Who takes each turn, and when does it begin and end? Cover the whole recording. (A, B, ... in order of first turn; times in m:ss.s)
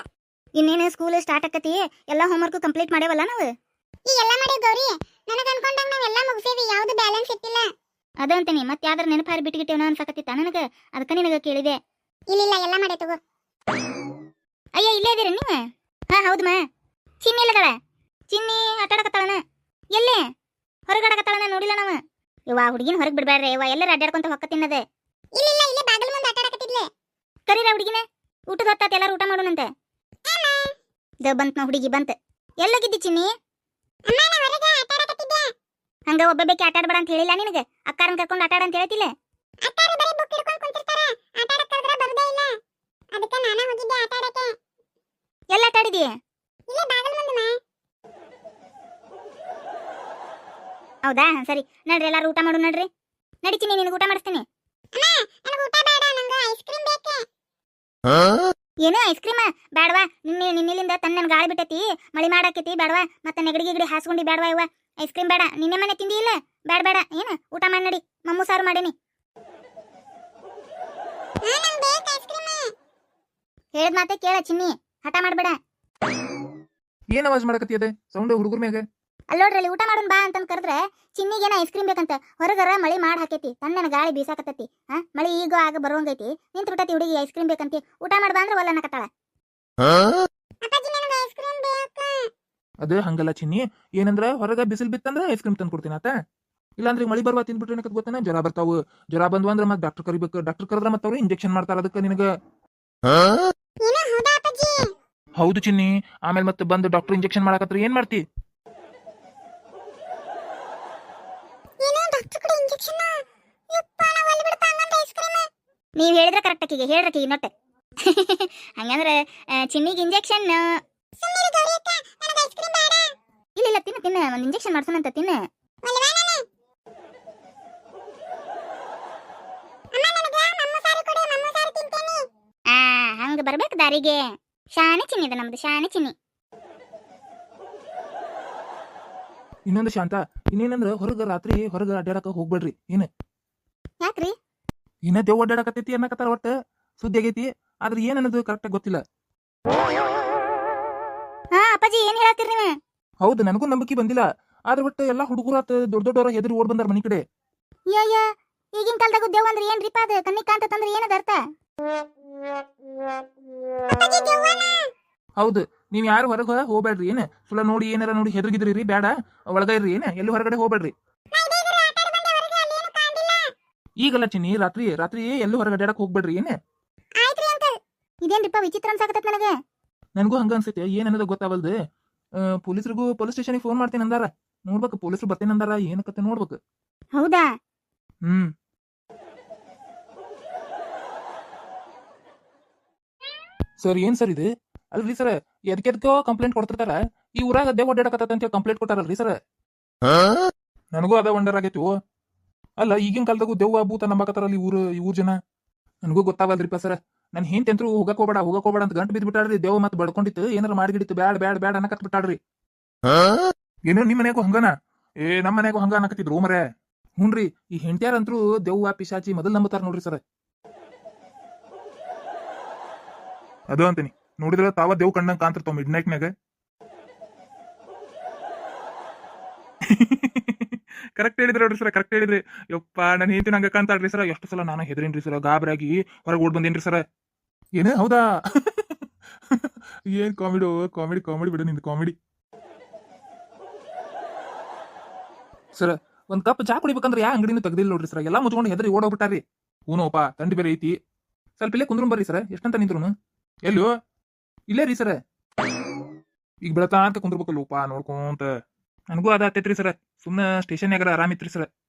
0:00.6-0:03.5 A
0:04.1-0:07.7 B
0:08.2-0:11.8 A
0:12.3-0:13.2 B
0:14.8-0:15.6 A
0:16.1-0:16.6 A
0:17.2-0:17.7 A
0:18.3-0:19.4 A
0:20.0-0:20.2 A
0:20.9-0:22.0 A
0:22.5-0:24.8 A
0:25.4-0:26.9 B
0:27.5-0:29.7 A
0:30.3-0:30.7 B
0:31.2-0:33.3 A
0:34.1-0:35.5 B
0:36.1-0:39.1 A
0:39.6-0:42.6 B
0:43.1-0:44.6 B
0:45.5-0:46.1 A
0:46.7-0:47.6 B
0:51.1-0:52.9 A
0:53.4-0:54.4 A
0:54.9-0:57.3 B
0:58.8-1:08.9 A
1:11.4-1:12.7 B
1:13.8-1:15.6 A
1:17.1-1:18.8 C
1:19.3-1:29.1 A
1:30.6-1:32.3 B
1:32.8-1:36.1 C
1:36.8-1:42.3 C
1:43.8-1:44.9 B
1:45.4-1:48.2 C
1:51.8-1:55.5 B
1:56.0-1:57.5 A
1:58.0-2:00.6 A
2:01.2-2:03.1 B
2:03.6-2:05.4 A
2:05.8-2:06.4 B
2:09.9-2:12.3 B
2:12.7-2:14.2 A
2:14.8-2:16.1 A
2:19.7-2:23.1 C
2:24.0-2:24.3 A
2:25.1-2:29.0 C
2:31.6-2:32.8 A
2:33.2-2:37.2 C
2:37.9-2:38.2 A
2:38.8-2:41.4 A
2:43.9-2:44.9 B
2:45.4-2:50.9 C
2:51.3-2:53.5 B
2:54.0-2:56.6 C
2:57.2-2:57.8 B
2:58.2-2:59.5 A
3:00.2-3:01.7 C
3:02.4-3:06.6 C
3:07.2-3:07.5 A
3:08.3-3:08.5 C
3:13.8-3:19.4 C
3:20.9-3:21.9 C
3:22.8-3:25.4 C
3:26.0-3:32.4 C
3:33.9-3:36.6 C
3:37.2-3:40.2 C
3:43.7-3:46.3 C
3:49.8-3:57.0 C
3:57.8-4:02.2 C
4:05.8-4:11.0 C
4:11.6-4:13.1 C
4:14.7-4:15.2 C
4:16.6-4:18.5 C
4:19.1-4:21.7 C